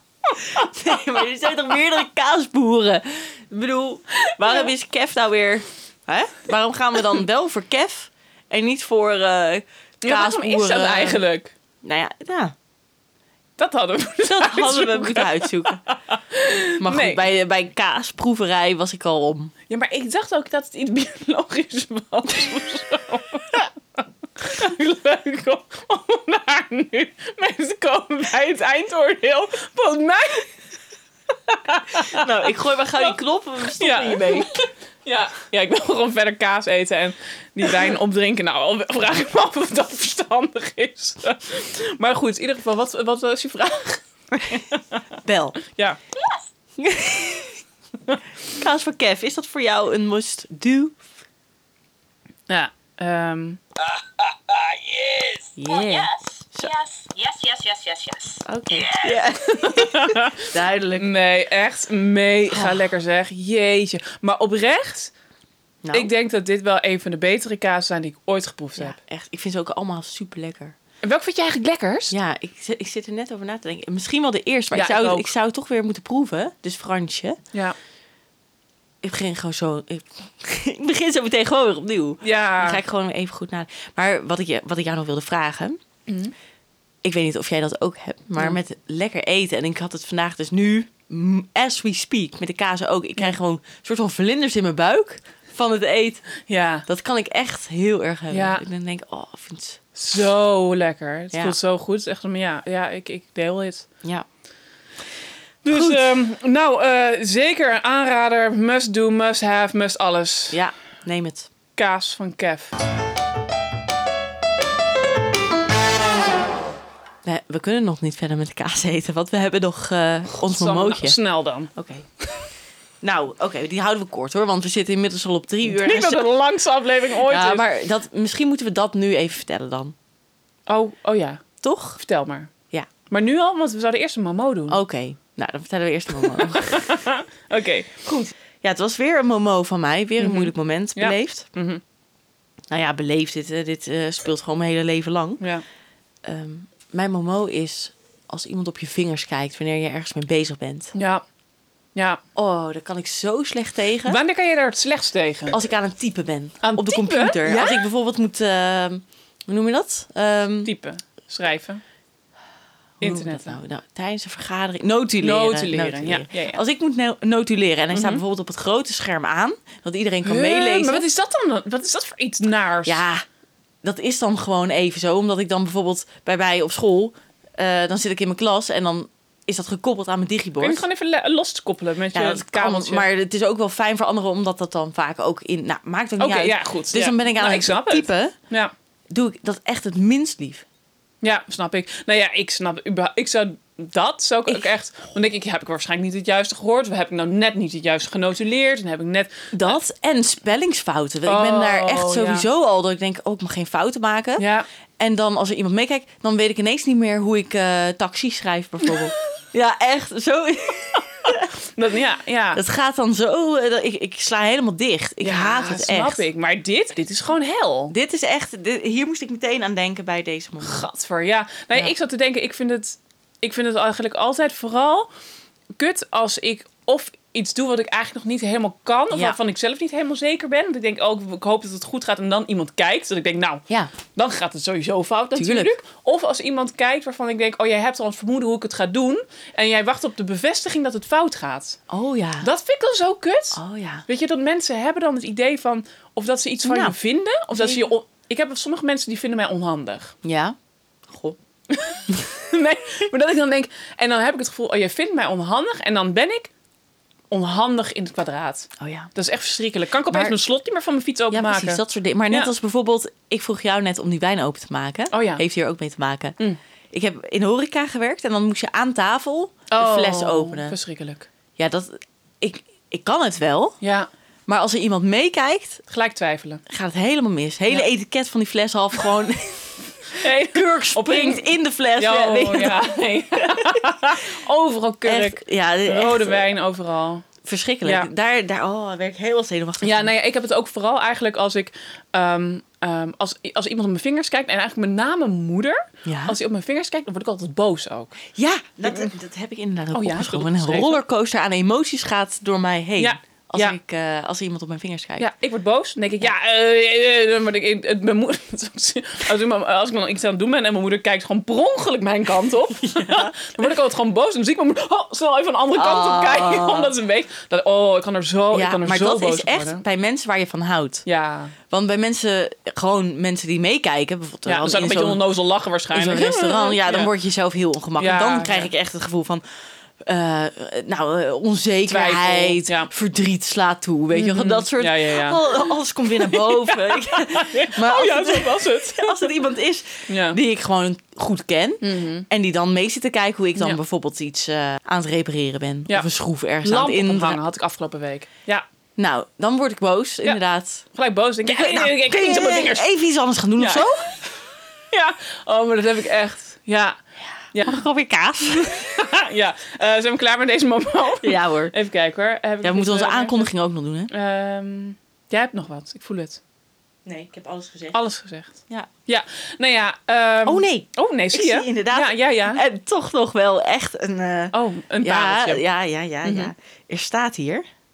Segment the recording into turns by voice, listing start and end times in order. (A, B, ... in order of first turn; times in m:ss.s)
0:00.4-0:00.8 A
0:00.4-0:11.2 B
0:04.2-0:04.7 A
0:10.0-0:11.5 A
0:11.8-0:12.6 B
0:13.6-0:17.2 A
0:14.2-0:15.8 B
0:16.8-0:19.5 B
0:19.7-0:23.7 A
0:24.4-0:30.5 A
0:31.5-0:32.2 A
0:32.0-0:34.5 B
0:33.8-0:45.0 A
0:44.3-0:44.7 B
0:45.2-0:45.6 B
0:45.6-0:46.0 A
0:46.8-0:47.6 B
0:48.4-0:51.0 B
0:52.5-0:53.6 A
0:55.1-0:59.1 C
0:55.6-0:56.7 B
0:58.4-1:01.1 B
0:59.4-1:05.1 A
1:02.5-1:02.8 B
1:05.8-1:06.1 B
1:05.9-1:09.0 A
1:08.8-1:10.8 B
1:11.0-1:12.1 A
1:12.1-1:17.4 B
1:14.7-1:15.3 A
1:19.0-1:25.8 B
1:22.2-1:22.8 A
1:26.1-1:26.3 A
1:27.0-1:36.3 B
1:36.5-1:36.8 A
1:36.9-1:39.8 B
1:38.3-1:38.6 A
1:40.0-1:43.9 A
1:45.6-1:50.6 A
1:45.7-1:46.2 B
1:50.5-1:51.5 B
1:51.8-1:52.8 A
1:57.2-2:01.2 B
2:00.3-2:01.7 A
2:01.7-2:02.1 B
2:03.0-2:06.3 B
2:05.7-2:07.6 A
2:07.2-2:10.0 B
2:10.7-2:11.5 A
2:11.6-2:12.0 B
2:12.0-2:12.5 A
2:13.1-2:14.8 A
2:14.7-2:16.9 B
2:16.2-2:17.9 A
2:18.0-2:21.5 B
2:20.2-2:21.8 A
2:22.7-2:25.4 B
2:26.2-2:30.9 B
2:30.9-2:31.2 A
2:32.0-2:32.2 A
2:32.4-2:34.2 B
2:34.1-2:35.6 A
2:35.5-2:40.7 B
2:36.6-2:37.8 A
2:40.6-2:41.8 A
2:43.0-2:51.1 B
2:43.0-2:43.6 A
2:45.2-2:46.6 A
2:47.9-2:48.2 A
2:50.2-2:53.0 A
2:52.8-2:53.2 B
2:53.8-3:00.8 B
3:00.6-3:03.1 A
3:02.1-3:08.3 B
3:06.2-3:08.7 A
3:09.1-3:10.6 B
3:11.2-3:19.8 A
3:19.5-3:24.5 B
3:21.2-3:22.5 A
3:24.4-3:24.7 A
3:25.0-3:31.5 B
3:31.2-3:32.6 A
3:32.5-3:36.2 B
3:35.2-3:38.0 A
3:37.9-3:40.9 B
3:40.6-3:45.1 A
3:45.8-4:01.8 A
3:49.1-3:49.4 B
3:55.4-3:55.7 B
4:01.9-4:02.5 B
4:02.4-4:10.2 A
4:03.5-4:04.0 B
4:06.6-4:07.0 B
4:07.5-4:07.9 B
4:10.2-4:10.6 B
4:11.1-4:11.4 B
4:11.7-4:16.5 A
4:17.3-4:22.5 A
4:18.8-4:19.1 B
4:20.1-4:20.4 B
4:21.3-4:26.4 B
4:25.1-4:25.4 A
4:26.9-4:30.8 B
4:29.7-4:31.3 A
4:31.6-4:33.8 B
4:33.8-4:34.1 A
4:34.5-4:35.8 B
4:35.9-4:36.6 A
4:36.7-4:44.2 B
4:40.2-4:47.3 A
4:45.0-4:46.5 B
4:47.4-4:50.1 B
4:47.8-4:48.1 A
4:49.8-4:58.2 A
4:56.0-4:56.4 B
4:58.3-5:05.3 B
4:59.9-5:01.0 A
5:03.0-5:03.8 A
5:05.2-5:19.8 A
5:12.8-5:13.7 B
5:15.8-5:17.0 B
5:18.5-5:21.0 B
5:21.1-5:21.6 A
5:21.7-5:25.2 B
5:24.5-5:27.1 A
5:25.9-5:29.4 B
5:28.0-5:28.7 A
5:30.0-5:47.4 B
5:31.9-5:32.9 A
5:34.1-5:35.7 A
5:36.2-5:39.2 A
5:40.1-5:40.4 A
5:41.8-5:42.3 A
5:46.6-5:48.6 A
5:49.0-5:50.9 B
5:50.9-5:52.9 A
5:51.4-5:54.1 B
5:53.6-5:53.9 A
5:54.9-5:57.0 A
5:57.5-5:57.8 A
5:57.6-5:59.0 B
5:58.7-6:03.5 A
6:01.2-6:01.7 B
6:02.6-6:04.1 B
6:04.1-6:06.4 A
6:07.0-6:08.0 B
6:07.9-6:12.6 A
6:10.4-6:17.6 B
6:14.5-6:15.6 A
6:16.2-6:16.5 A